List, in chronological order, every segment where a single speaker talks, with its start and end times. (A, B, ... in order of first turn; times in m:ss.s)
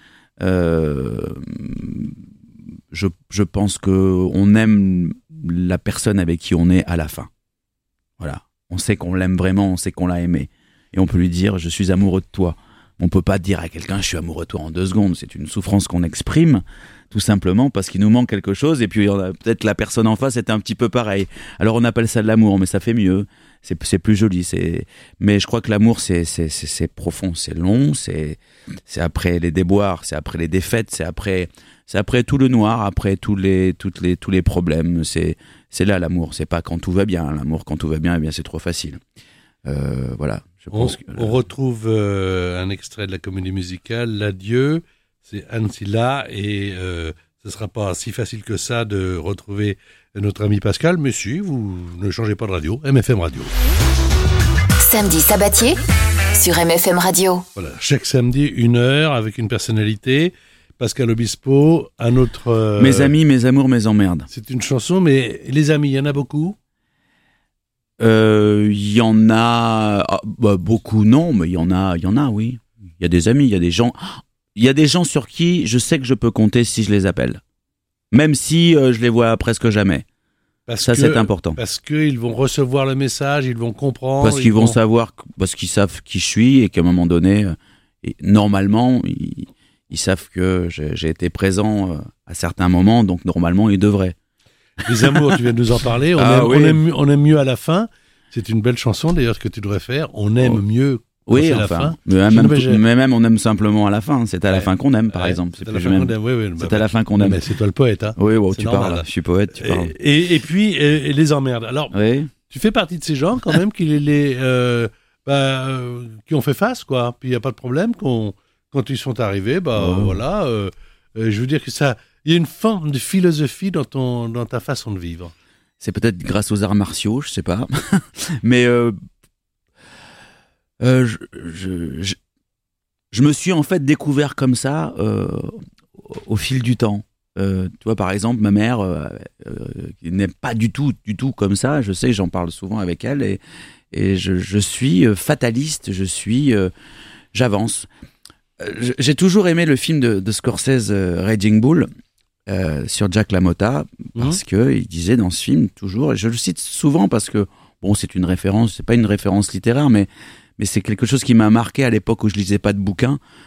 0:00.4-0:02.2 A
0:02.9-0:07.3 A
0:08.2-0:39.0 A
0:39.6-0:41.4 A
0:40.7-0:53.5 B
0:54.8-0:55.8 C
0:56.3-0:57.4 C
0:57.6-1:03.1 B
1:02.8-1:04.3 A
1:04.3-1:06.6 B
1:08.0-1:17.4 A
1:18.1-1:20.0 A
1:20.7-1:24.8 B
1:20.8-1:21.6 A
1:24.2-1:34.2 A
1:34.8-1:42.8 B
1:34.9-1:35.4 A
1:36.2-1:36.8 A
1:41.2-1:47.4 A
1:44.5-1:51.9 B
1:48.2-1:49.9 A
1:51.9-1:52.3 A
1:52.5-2:05.3 B
1:59.7-2:00.2 A
2:05.8-2:08.9 A
2:10.8-2:12.2 A
2:13.1-2:26.7 A
2:27.3-2:27.9 A
2:28.6-2:31.9 A
2:32.5-2:43.2 A